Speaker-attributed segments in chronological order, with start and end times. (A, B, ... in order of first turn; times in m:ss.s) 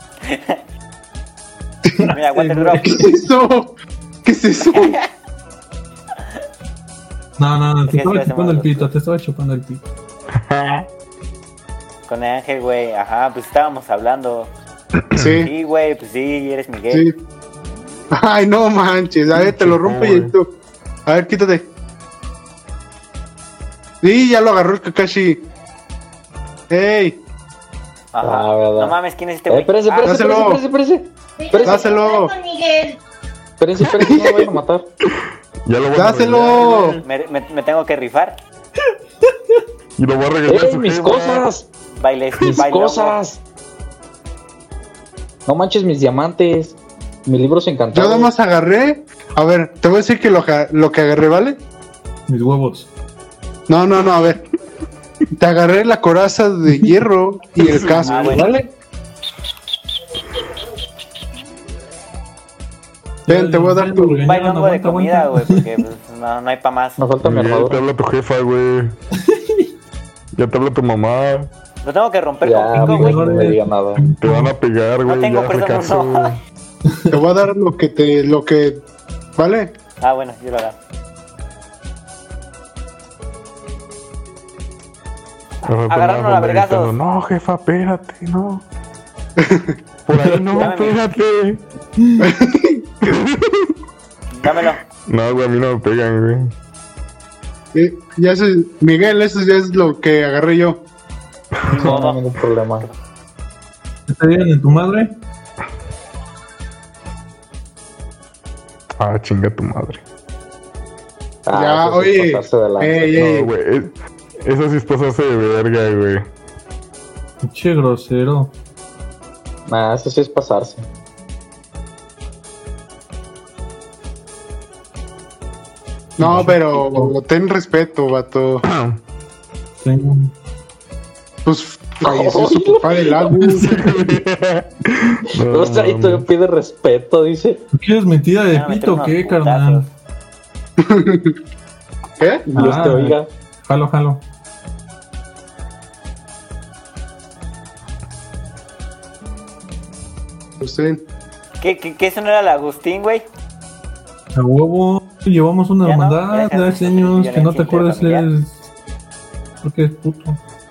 0:00.2-0:00.6 A
0:02.0-0:03.0 B
0:02.1-0:03.0 A
0:02.8-0:03.7 C
0:04.2-0:05.0 C
0:04.7-0:05.1 A
0:07.4-0:09.8 B
0:07.9-0:08.9 A
0:10.3-0:10.8 D
0:12.1-0:14.5 A
0:15.1-0:15.4 D
0:15.1-0:15.5 C
0:15.4-0:17.0 A
0:18.1-0:20.5 C
0:19.3-0:20.3 D
0:21.0-0:21.7 C
0:24.0-0:25.4 C
0:26.7-0:27.2 C
0:28.1-0:30.6 A
0:28.2-0:29.0 E
0:29.5-0:32.0 E
0:30.0-0:30.6 C
0:31.6-0:32.4 C
0:33.6-0:34.9 E
0:34.0-0:34.2 C
0:35.6-0:36.6 D
0:35.9-0:37.0 C
0:36.6-0:38.4 A
0:40.0-0:41.4 D
0:40.5-0:41.7 E
0:42.0-0:43.2 A
0:42.4-0:43.4 E
0:45.4-0:48.3 E
0:47.9-0:51.6 C
0:52.3-0:52.9 B
0:53.7-0:54.4 C
0:55.4-0:58.7 C
0:57.6-0:58.4 D
0:58.0-0:58.6 A
1:03.2-1:05.7 B
1:03.3-1:04.2 C
1:04.2-1:07.0 A
1:07.0-1:07.8 E
1:07.2-1:08.9 D
1:09.2-1:09.7 B
1:10.4-1:11.5 D
1:11.8-1:13.6 A
1:12.4-1:14.0 E
1:12.7-1:14.5 B
1:14.2-1:16.4 D
1:15.1-1:16.3 A
1:16.8-1:17.2 B
1:17.1-1:18.8 C
1:19.4-1:19.7 C
1:20.0-1:20.8 A
1:25.6-1:28.6 D
1:25.9-1:27.0 A
1:29.4-1:29.7 C
1:30.1-1:31.6 D
1:30.1-1:30.4 B
1:30.6-1:31.0 A
1:32.0-1:32.2 B
1:32.2-1:32.8 C
1:33.0-1:33.7 D
1:34.3-1:34.8 A
1:35.0-1:36.5 D
1:37.7-1:40.8 C
1:41.6-1:42.2 A
1:41.8-1:42.9 E
1:44.1-1:45.1 B
1:49.0-1:50.0 D
1:51.4-1:53.1 E
1:51.5-1:53.5 C
1:53.2-1:56.2 D
1:57.4-1:58.5 B
1:59.7-2:00.8 E
2:06.2-2:08.6 C
2:06.2-2:07.1 B
2:08.6-2:09.0 D
2:09.8-2:10.3 B
2:11.4-2:13.7 C
2:12.0-2:13.4 E
2:13.6-2:14.0 B
2:13.6-2:16.2 D
2:15.4-2:17.6 E
2:17.7-2:19.9 B
2:18.5-2:19.9 A
2:20.8-2:21.3 C
2:22.2-2:22.5 C
2:22.5-2:23.3 E
2:22.5-2:24.2 B
2:30.6-2:31.0 C
2:31.6-2:33.2 A
2:34.3-2:38.6 B
2:35.8-2:38.3 A
2:39.6-2:40.4 B